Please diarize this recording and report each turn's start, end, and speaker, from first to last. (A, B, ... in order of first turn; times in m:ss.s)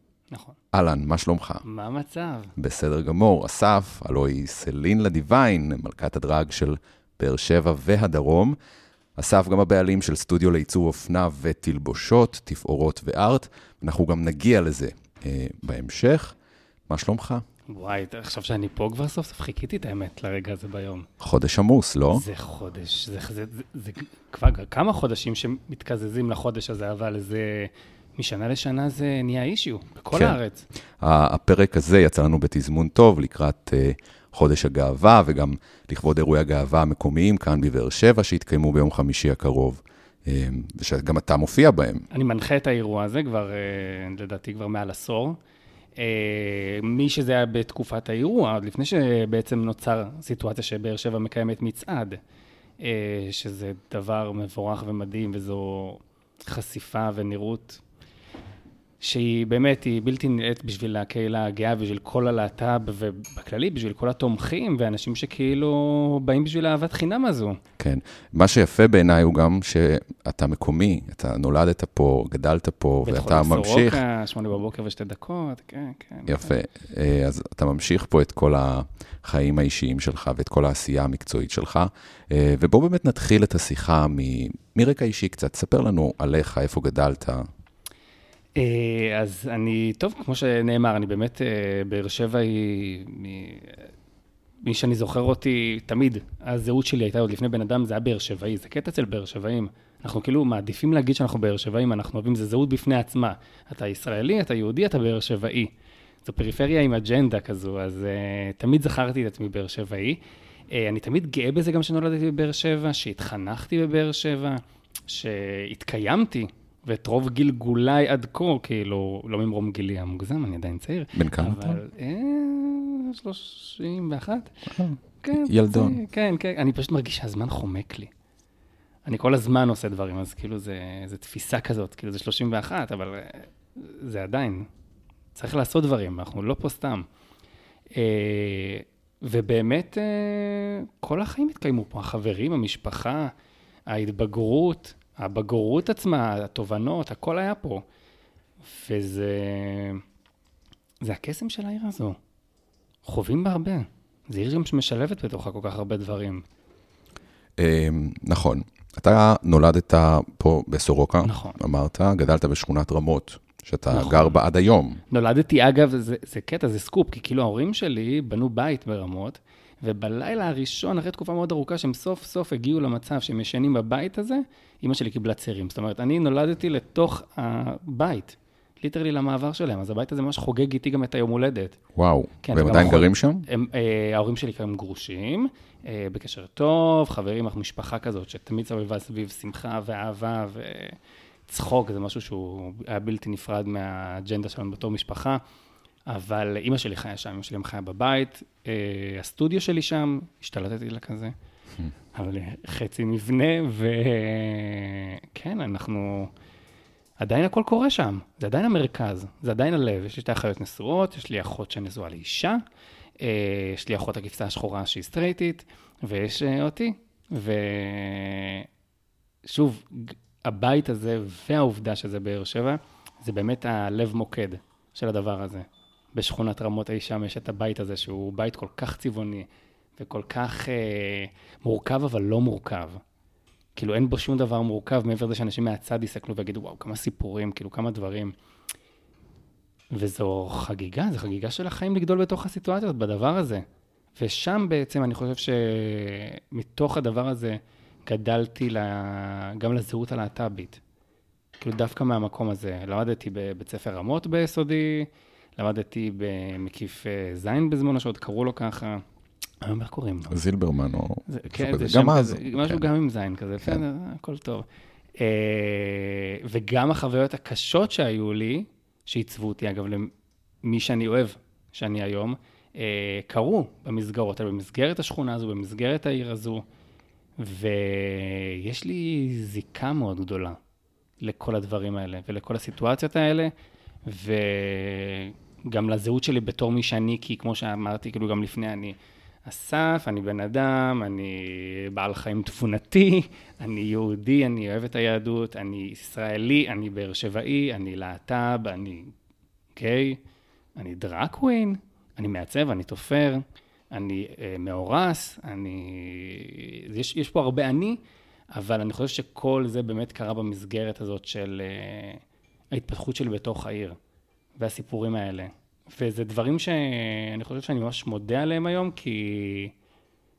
0:00.3-0:00.6 A
0:00.7-0:01.6 B
0:01.6-0:02.5 A
0:02.6-0:08.6 B
0:09.2-0:16.4 B
0:16.9-0:17.4 B
0:17.7-0:21.1 A
0:21.2-0:22.2 B
0:22.1-0:30.6 A
0:31.0-0:42.1 B
0:42.1-0:45.4 A
0:46.0-0:52.2 A
0:52.8-0:57.8 A
0:59.0-1:07.6 A
1:07.8-1:14.0 B
1:13.0-1:16.5 A
1:16.3-1:27.4 B
1:28.6-1:33.9 A
1:34.6-1:45.7 A
1:46.2-1:50.2 A
1:50.7-2:04.7 A
2:01.1-2:01.8 B
2:04.7-2:06.0 B
2:05.2-2:08.1 A
2:09.0-2:14.7 A
2:15.3-2:17.0 A
2:18.0-2:23.3 A
2:23.9-2:27.8 A
2:28.6-2:30.0 A
2:31.0-2:32.2 A
2:33.0-2:36.4 A
2:37.6-2:45.0 B
2:41.2-2:41.6 A
2:43.9-2:44.4 A
2:45.1-3:01.8 A
3:02.0-3:03.4 B
3:02.4-3:15.4 A
3:16.1-3:21.3 A
3:22.1-3:26.3 A
3:27.2-3:32.6 A
3:33.2-3:38.7 A
3:39.4-3:49.4 A
3:50.0-3:53.0 A
3:53.8-3:58.3 A
3:59.9-4:03.6 A
4:04.2-4:10.8 A
4:11.6-4:19.0 A
4:19.6-4:20.4 A
4:20.3-4:22.8 B
4:21.3-4:24.6 A
4:25.2-4:30.1 A
4:30.6-4:36.6 A
4:37.4-4:40.6 A
4:41.2-4:43.5 A
4:44.0-4:59.1 A
4:59.8-5:00.2 A
5:00.8-5:08.0 A
5:08.5-5:12.2 A
5:12.7-5:14.0 A
5:14.6-5:19.7 A